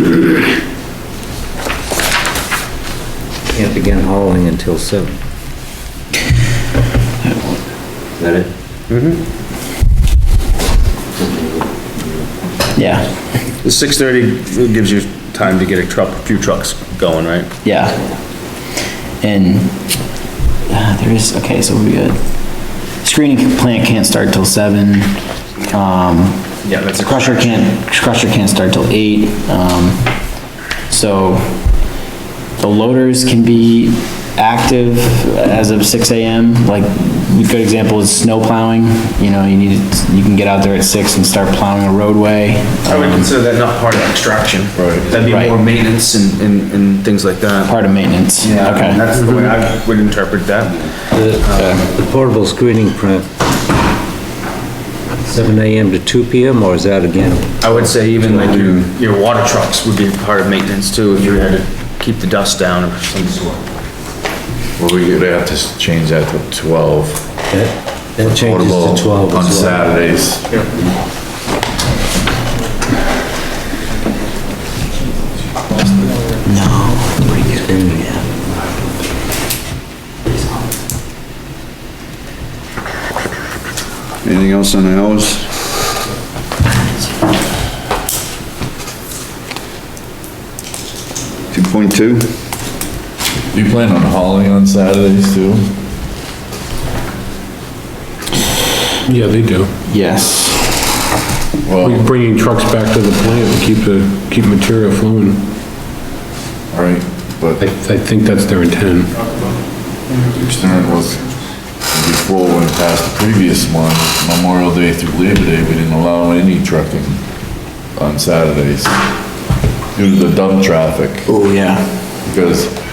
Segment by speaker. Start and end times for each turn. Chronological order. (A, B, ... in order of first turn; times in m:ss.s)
0:03.5-0:05.2 A
0:08.2-0:08.5 A
0:08.9-0:09.2 B
0:11.2-0:12.2 A
0:12.8-0:13.1 C
0:13.6-0:17.5 B
0:17.6-0:18.0 C
0:19.2-0:19.9 C
0:20.7-0:30.1 C
0:26.6-0:27.6 B
0:30.9-0:31.6 C
0:32.6-0:43.3 C
0:42.9-0:47.7 B
0:44.8-0:45.1 D
0:45.2-0:45.6 C
0:47.7-0:49.0 C
0:48.4-0:50.9 B
0:49.2-0:49.6 E
0:51.1-0:53.3 A
0:51.6-0:51.9 C
0:55.2-0:57.8 A
0:57.6-1:03.6 B
0:58.5-0:58.8 F
1:04.8-1:07.3 D
1:07.5-1:09.9 A
1:08.2-1:10.5 D
1:16.4-1:18.2 C
1:17.7-1:18.1 A
1:24.2-1:25.5 F
1:31.5-1:32.3 F
1:33.5-1:35.6 D
1:39.0-1:39.7 E
1:39.9-1:40.6 C
1:41.6-1:42.0 D
1:41.8-1:45.5 E
1:46.7-1:47.6 D
1:47.6-1:49.1 E
1:50.4-1:51.2 D
1:51.9-1:57.2 D
1:58.0-1:58.9 D
2:00.0-2:01.3 D
2:01.3-2:02.1 C
2:02.3-2:02.8 D